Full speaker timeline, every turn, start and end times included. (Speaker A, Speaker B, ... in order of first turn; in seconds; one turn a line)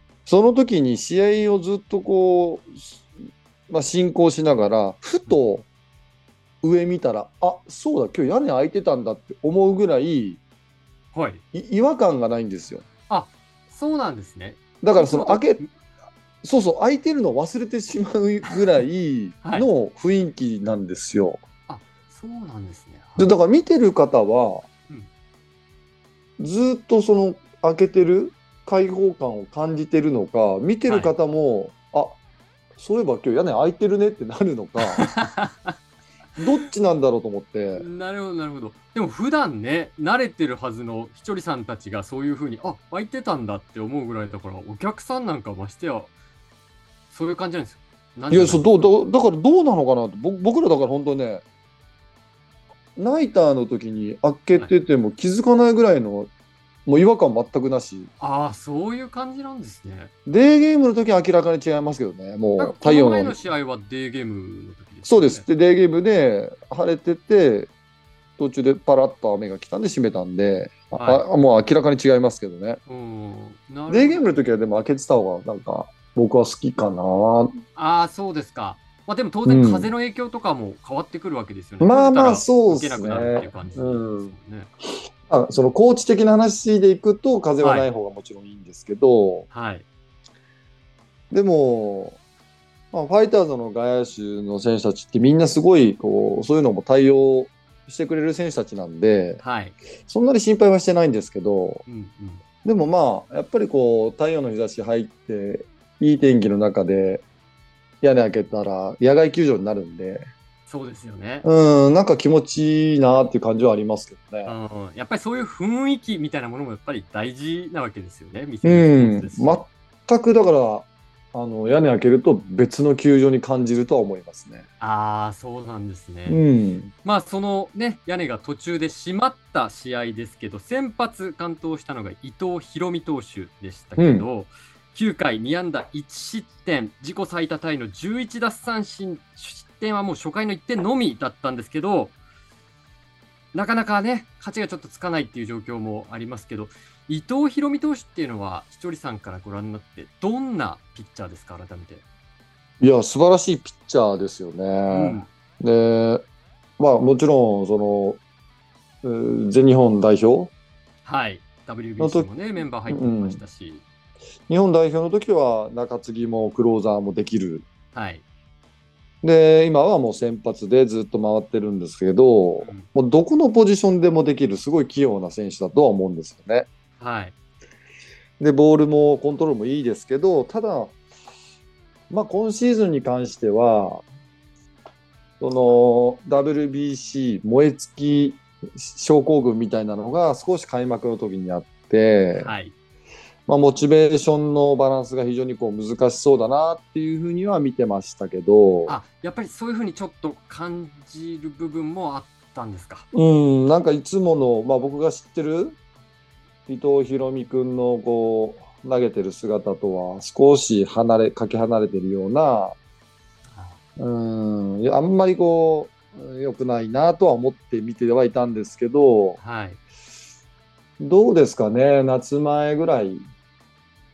Speaker A: 0.2-3.0
Speaker A: 3.7-5.7
Speaker A: 6.6-10.4
Speaker B: 11.1-11.4
Speaker A: 11.5-12.8
Speaker B: 13.1-15.7
Speaker A: 14.8-15.6
Speaker A: 16.4-21.4
Speaker B: 19.4-19.7
Speaker B: 21.7-23.3
Speaker A: 23.2-24.6
Speaker A: 26.4-32.1
Speaker B: 30.9-31.1
Speaker A: 32.8-35.0
Speaker B: 34.9-35.8
Speaker A: 36.4-37.9
Speaker B: 37.8-46.1
Speaker B: 47.1-48.9
Speaker A: 48.3-51.4
Speaker A: 53.0-56.3
Speaker A: 56.9-58.1
Speaker B: 58.2-60.1
Speaker A: 60.3-63.4
Speaker B: 62.6-65.4
Speaker A: 65.0-67.7
Speaker A: 68.4-72.8
Speaker B: 70.9-71.2
Speaker B: 72.9-74.5
Speaker A: 73.9-77.6
Speaker B: 77.8-84.7
Speaker A: 79.4-79.9
Speaker A: 81.8-84.3
Speaker A: 85.3-89.5
Speaker B: 87.6-87.9
Speaker B: 89.5-89.8
Speaker A: 91.3-92.2
Speaker A: 92.9-99.4
Speaker B: 99.4-99.8
Speaker A: 100.1-101.8
Speaker B: 101.8-102.4
Speaker A: 102.6-107.2
Speaker A: 108.0-110.2
Speaker B: 110.7-111.5
Speaker A: 111.4-114.5
Speaker B: 114.4-119.6
Speaker A: 118.6-124.7
Speaker B: 124.8-126.4
Speaker A: 126.3-126.9
Speaker B: 127.0-142.2
Speaker A: 134.0-134.3
Speaker B: 143.5-152.0
Speaker A: 152.8-156.2
Speaker B: 154.9-155.3
Speaker A: 156.8-158.2
Speaker A: 159.0-160.5
Speaker B: 161.0-163.8
Speaker A: 162.0-162.3
Speaker A: 162.9-163.4
Speaker A: 164.5-167.6
Speaker B: 167.9-168.2
Speaker A: 169.2-176.7
Speaker B: 172.6-172.9
Speaker B: 177.0-177.3
Speaker A: 178.4-180.9
Speaker A: 182.1-184.0
Speaker A: 185.4-192.5
Speaker B: 192.3-192.7
Speaker A: 193.5-198.9
Speaker B: 198.9-203.1
Speaker A: 203.1-205.8
Speaker A: 206.7-212.7
Speaker B: 213.5-213.8
Speaker A: 214.0-219.4
Speaker B: 219.4-219.8
Speaker A: 221.0-223.2